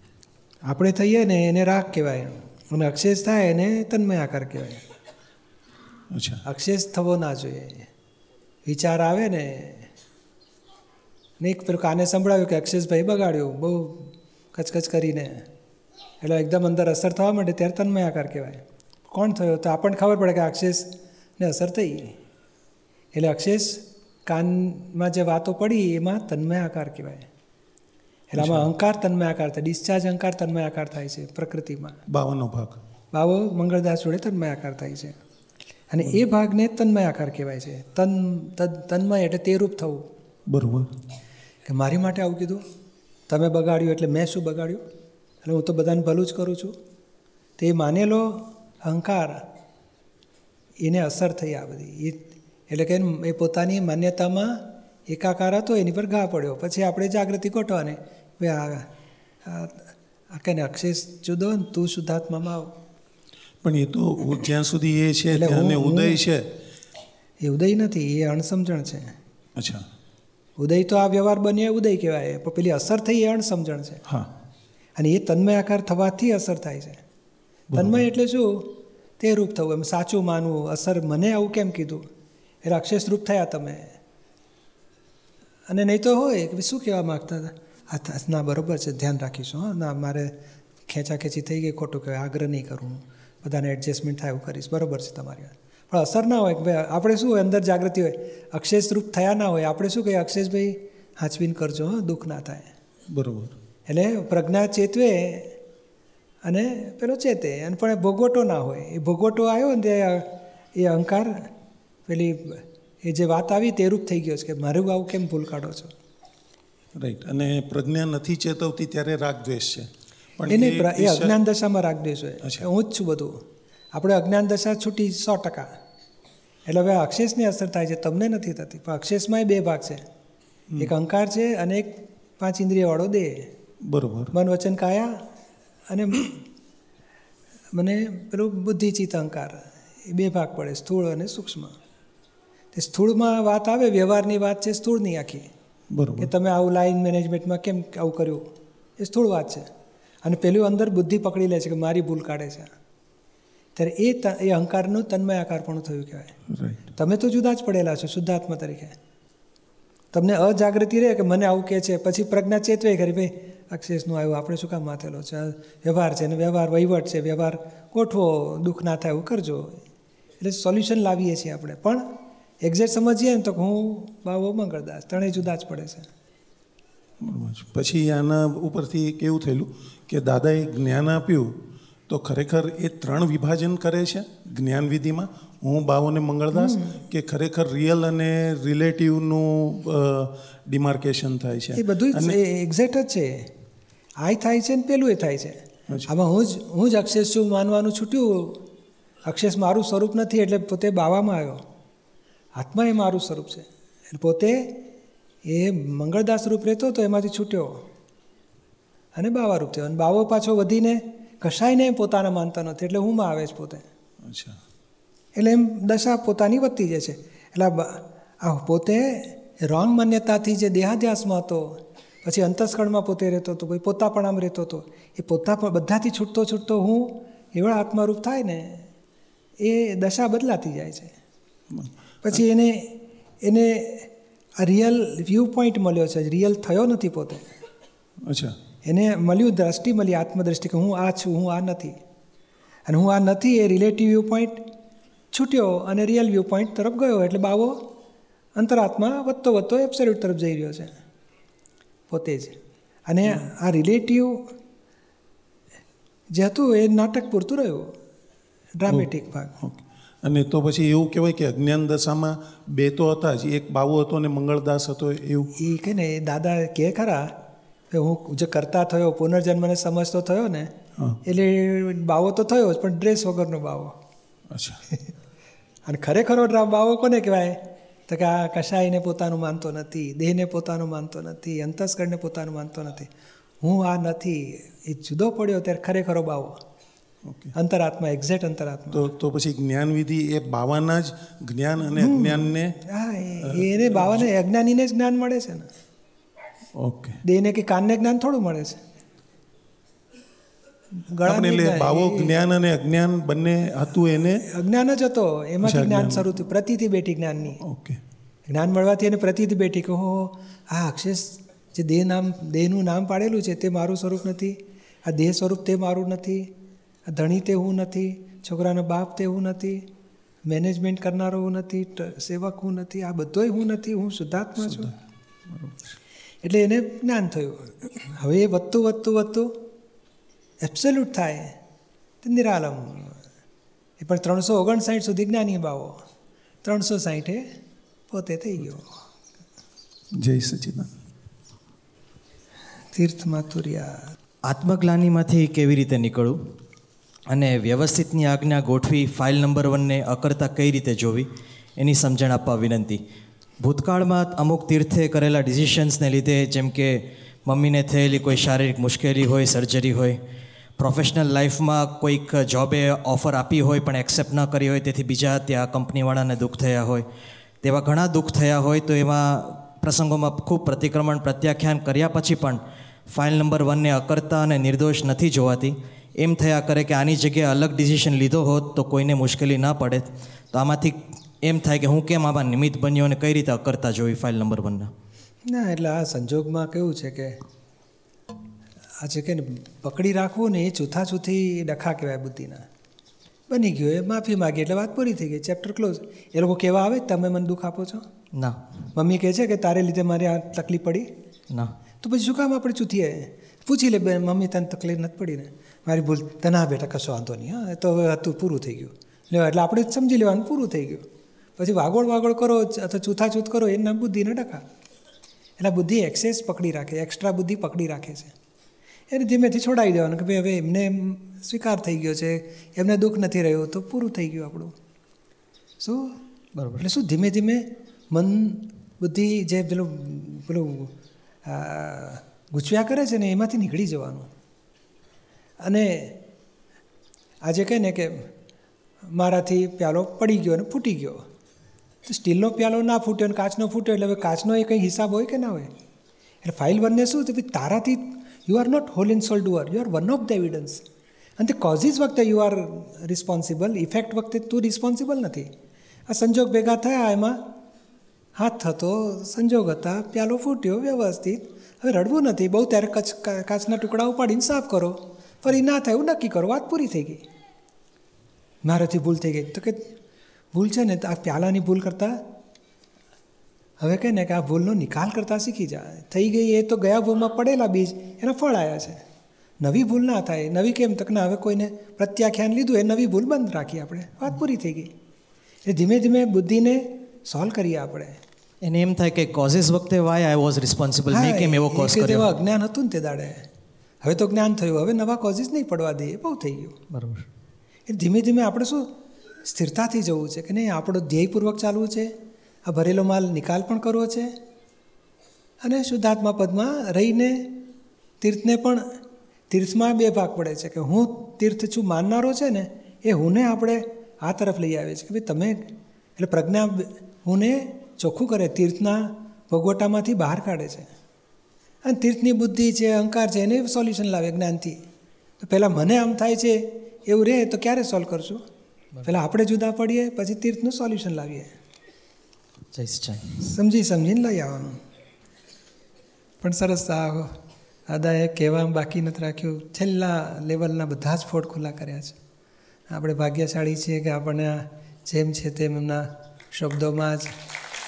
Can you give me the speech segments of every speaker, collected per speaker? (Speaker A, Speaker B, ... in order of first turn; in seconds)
Speaker A: 0.7-4.8, 6.4-7.9, 8.7-9.9, 11.4-15.4, 16.2-22.1, 23.1-27.2, 28.3-32.0, 33.1-35.1, 35.9-40.0, 41.7-42.6, 43.3-44.8, 45.4-46.7, 47.6-49.4, 50.8-52.2, 52.7-58.9, 59.4-62.7, 65.3-66.2, 67.4-69.1, 70.6-74.0, 75.0-77.0, 77.7-82.0, 82.6-83.9, 85.7-90.3, 90.9-102.7, 103.9-105.5, 106.4-111.5, 112.1-115.9, 120.5-123.4, 123.9-125.7, 126.7-130.0, 130.8-133.4, 134.3-135.1, 135.9-136.4, 137.7-141.7, 142.7-145.5, 146.2-148.4, 149.0-149.7, 150.2-152.7, 153.8-156.3, 156.9-158.9, 160.1-169.8, 170.4-172.1, 172.6-176.1, 186.5-187.0, 191.8-193.4, 194.2-198.6, 199.3-201.6, 202.6-204.7, 205.4-207.8, 209.2-213.8, 215.4-221.7, 222.2-228.9, 229.6-231.1, 232.2-237.4, 238.9-242.0, 242.9-244.6, 245.3-247.8, 248.6-250.9, 252.1-252.6, 253.1-254.4, 256.3-257.9, 258.8-259.6, 265.6-267.3, 267.9-270.7, 271.2-273.9, 275.9-283.1, 283.6-286.6, 287.5-289.1, 292.0-295.7, 297.2-298.8, 301.1-302.3, 304.5-307.6, 308.5-316.5, 317.1-319.8, 320.4-324.9, 326.4-329.6, 330.6-331.5, 332.2-333.2, 334.0-336.0, 336.6-337.4, 338.1-338.9, 342.9-344.0, 385.5-387.4, 389.0-392.6, 393.5-398.0, 398.9-401.1, 402.0-411.1, 411.6-414.6, 415.6-418.3, 419.1-424.7, 425.8-426.1, 426.8-430.9, 431.4-434.3, 435.6-436.1, 437.4-438.1, 439.1-441.2, 442.1-445.7, 446.4-450.8, 451.4-455.5, 456.1-457.4, 458.4-467.2, 468.6-469.9, 470.5-472.2, 473.8-479.0, 479.6-484.9, 485.6-488.2, 491.1-493.4, 494.0-496.8, 497.9-498.9, 499.4-502.1, 502.6-504.3, 505.6-507.4, 508.2-508.8, 509.5-520.9, 521.9-524.8, 525.4-528.4, 529.0-531.5, 533.4-534.8, 536.4-537.3, 537.9-542.1, 542.9-547.3
Speaker B: 6.1-6.4, 28.4-28.7, 32.1-32.8, 40.5-40.9, 63.6-66.5, 69.6-69.9, 77.7-78.0, 103.1-103.6, 117.0-121.4, 133.9-134.3, 145.9-146.3, 156.5-156.9, 177.2-181.5, 182.1-192.4, 214.2-214.6, 231.7-232.4, 238.2-238.6, 259.6-265.5, 274.5-274.8, 287.2-287.5, 288.9-292.8, 293.4-294.3, 296.8-297.2, 301.2-304.4, 305.6-306.4, 307.6-308.0, 324.6-324.9, 325.5-326.0, 340.2-340.9
Speaker C: 344.5-346.4, 347.3-351.3, 351.8-353.0, 353.6-360.2, 360.8-367.1, 367.6-384.9, 398.4-398.6, 426.6-426.9, 488.6-492.3, 496.9-497.3, 532.7-533.4